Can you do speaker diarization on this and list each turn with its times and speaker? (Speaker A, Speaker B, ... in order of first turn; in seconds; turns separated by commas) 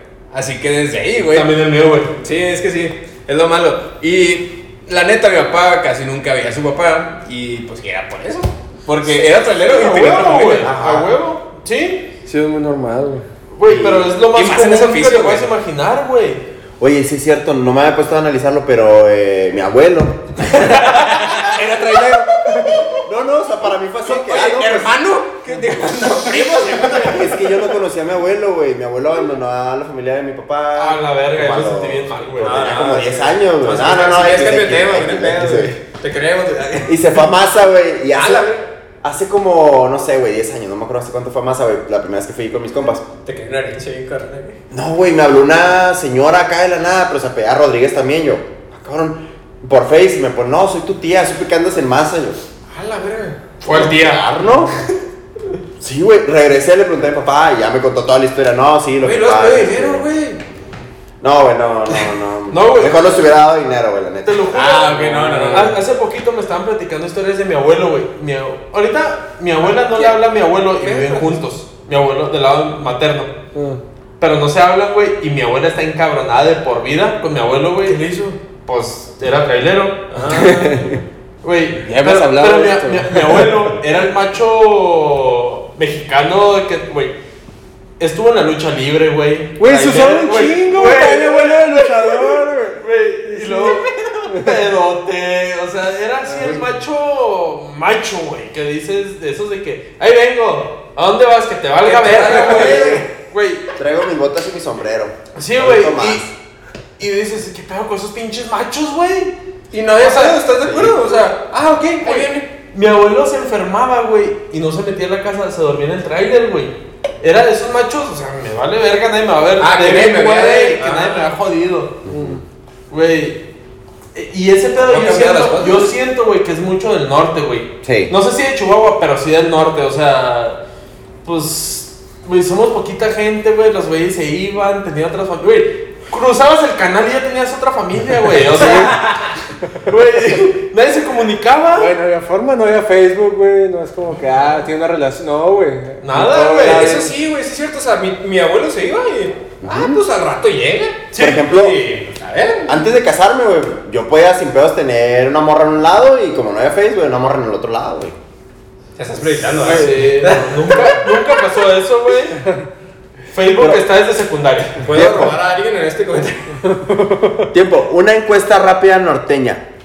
Speaker A: 0.3-1.5, Speaker B: 1.3-2.1, Speaker A: 2.2-10.7, Speaker B: 9.5-12.1, Speaker C: 10.6-11.2, Speaker D: 12.3-13.2, Speaker B: 13.5-16.4, Speaker C: 13.7-14.1, Speaker A: 14.3-15.5, Speaker C: 16.8-20.7, Speaker B: 20.5-21.2, Speaker A: 20.7-23.0, Speaker D: 21.9-22.8, Speaker C: 23.0-25.0, Speaker A: 24.1-27.4, Speaker C: 26.6-35.8, Speaker B: 30.8-32.9, Speaker A: 32.4-37.2, Speaker B: 33.6-34.3, Speaker C: 36.9-43.1, Speaker A: 38.1-38.6, Speaker A: 43.2-44.6, Speaker C: 44.7-52.4, Speaker A: 52.7-54.2, Speaker B: 53.6-54.2, Speaker C: 53.7-54.8, Speaker C: 55.8-60.1, Speaker A: 59.0-60.4, Speaker C: 61.2-64.5, Speaker B: 62.5-63.2, Speaker B: 64.2-73.3, Speaker A: 64.5-65.8, Speaker D: 65.2-65.8, Speaker A: 69.6-70.2, Speaker A: 70.7-71.4, Speaker D: 73.5-73.8, Speaker B: 74.2-80.5, Speaker A: 80.1-80.8, Speaker C: 80.3-81.0, Speaker B: 81.4-87.2, Speaker D: 81.8-83.5, Speaker B: 88.0-103.7, Speaker D: 89.6-94.5, Speaker A: 101.8-103.0, Speaker C: 102.4-103.1, Speaker C: 103.7-106.3, Speaker B: 105.3-106.2, Speaker B: 107.0-109.4, Speaker A: 109.7-112.5, Speaker B: 109.9-110.5, Speaker C: 110.6-111.1, Speaker B: 112.0-122.0, Speaker A: 119.6-121.3, Speaker C: 122.0-122.4, Speaker D: 122.1-122.4, Speaker B: 122.9-123.5, Speaker B: 124.2-130.6, Speaker A: 124.8-125.9, Speaker C: 127.8-128.1, Speaker B: 131.2-139.0, Speaker D: 138.5-139.0, Speaker A: 138.5-139.3, Speaker B: 139.8-141.9, Speaker D: 141.8-147.2, Speaker B: 146.0-146.9, Speaker A: 146.6-151.0, Speaker C: 149.6-150.0, Speaker B: 151.1-152.1, Speaker C: 151.2-151.8, Speaker A: 152.1-152.8, Speaker C: 152.7-158.2, Speaker A: 159.0-161.1, Speaker B: 159.6-162.4, Speaker D: 159.7-160.4, Speaker B: 163.3-165.3, Speaker A: 164.8-166.6, Speaker C: 164.9-165.3, Speaker C: 167.5-169.7